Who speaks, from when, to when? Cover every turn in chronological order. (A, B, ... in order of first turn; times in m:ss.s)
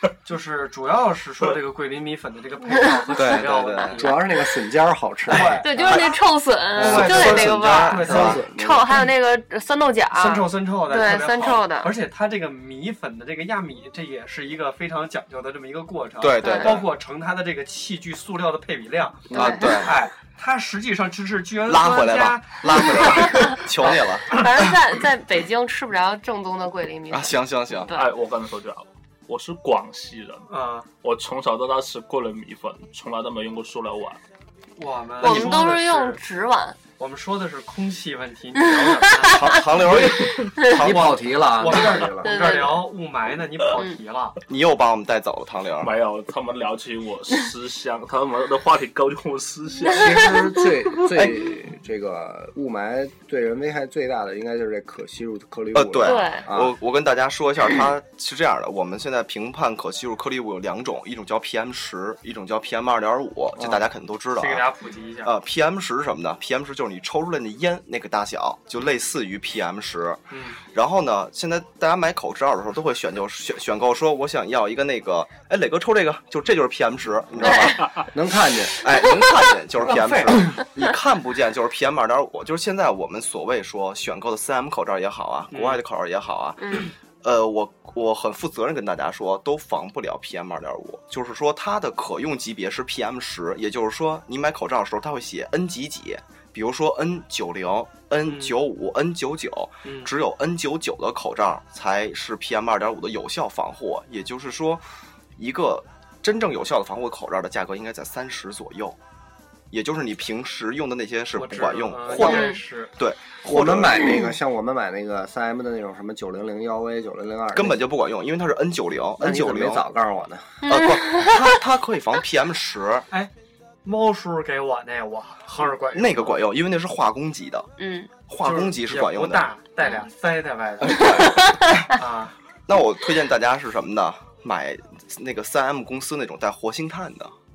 0:00.2-0:04.2 A
0:02.7-0:03.2 B
0:03.2-0:04.1 C
0:03.9-0:06.0 D
0:05.3-0:06.2 A
0:05.6-0:11.9 B
0:06.7-0:08.4 A
0:06.8-0:09.0 D
0:06.8-0:08.4 C
0:10.2-0:24.4 A
0:16.2-0:16.9 C
0:16.4-0:16.8 B
0:19.3-0:19.6 D
0:19.3-0:20.0 C
0:19.3-0:19.8 B
0:21.7-0:24.5 C
0:24.3-0:28.1 B
0:27.1-0:27.9 C
0:27.9-0:30.5 E
0:30.5-0:30.9 A
0:31.0-0:34.2 E
0:34.8-0:36.2 A
0:35.2-0:36.8 B
0:37.0-0:44.4 A
0:39.3-0:41.3 C
0:40.2-0:40.5 E
0:40.7-0:42.3 D
0:42.2-0:42.9 B
0:44.5-0:45.9 C
0:45.8-0:50.7 E
0:49.9-0:56.8 D
0:51.1-0:51.4 C
0:55.7-1:04.7 C
0:56.0-0:56.4 B
1:03.6-1:03.8 D
1:04.4-1:05.3 A
1:05.2-1:10.2 C
1:10.3-1:10.6 A
1:10.7-1:17.9 C
1:17.4-1:17.8 B
1:18.1-1:18.9 D
1:18.8-1:44.8 C
1:19.8-1:20.4 A
1:25.5-1:25.8 A
1:26.6-1:26.9 B
1:38.3-1:38.6 A
1:39.8-1:40.1 A
1:45.4-1:49.0 C
1:49.7-1:54.2 C
1:51.4-1:52.9 A
1:52.2-1:52.6 B
1:53.4-1:57.8 D
1:57.5-1:59.8 C
1:59.2-2:00.6 D
2:00.6-2:01.5 B
2:00.7-2:03.1 C
2:03.8-2:06.4 A
2:05.9-2:07.7 C
2:07.8-2:08.1 B
2:08.3-2:09.5 C
2:08.4-2:11.4 A
2:10.8-2:11.9 C
2:11.2-2:11.5 B
2:11.9-2:12.4 A
2:12.7-2:17.3 C